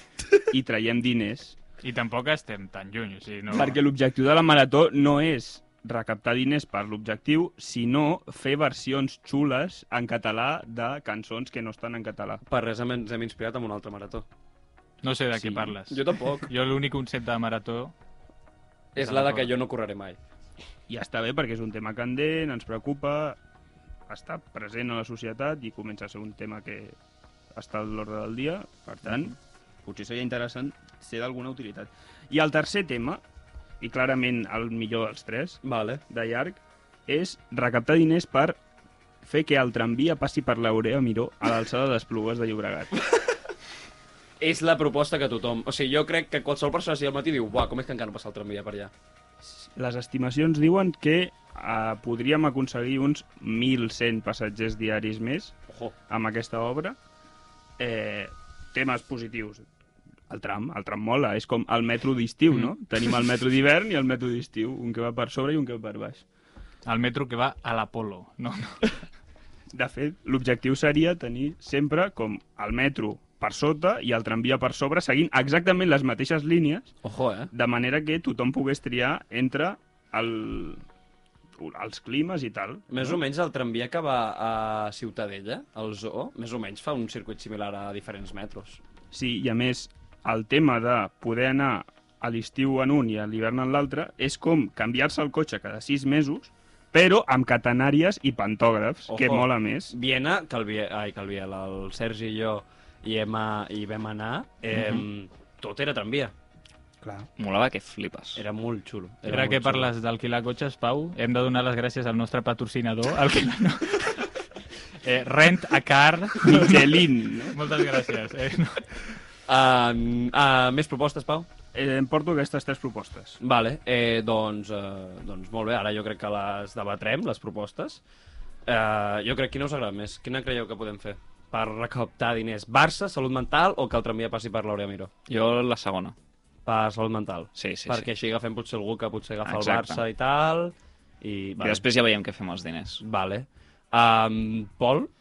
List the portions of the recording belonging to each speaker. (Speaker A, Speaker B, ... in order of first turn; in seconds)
Speaker A: 0.5-1.6, 3.5-12.4, 20.9-23.4, 24.1-27.0, 27.5-33.2, 33.8-38.6, 39.2-42.9, 49.4-55.6, 56.1-57.0, 57.8-59.6, 60.3-66.2, 69.7-76.9, 77.5-80.8, 81.6-83.2, 89.1-99.9, 107.0-107.3, 116.4-117.6, 121.7-123.4
Speaker B: 1.8-3.8, 15.0-17.9, 19.0-19.5, 66.8-68.9, 109.2-114.3, 115.0-118.8
Speaker C: 12.4-14.2, 15.3-16.5, 18.9-20.2, 35.6-36.0, 44.4-48.9, 55.7-55.9, 77.0-77.5, 82.9-88.8, 99.1-106.3, 108.3-109.9, 119.5-121.5, 123.4-128.0, 128.7-135.1, 136.7-141.8, 143.0-145.1
Speaker D: 107.4-108.4, 135.3-136.1, 137.6-138.1, 139.4-140.0, 141.6-143.0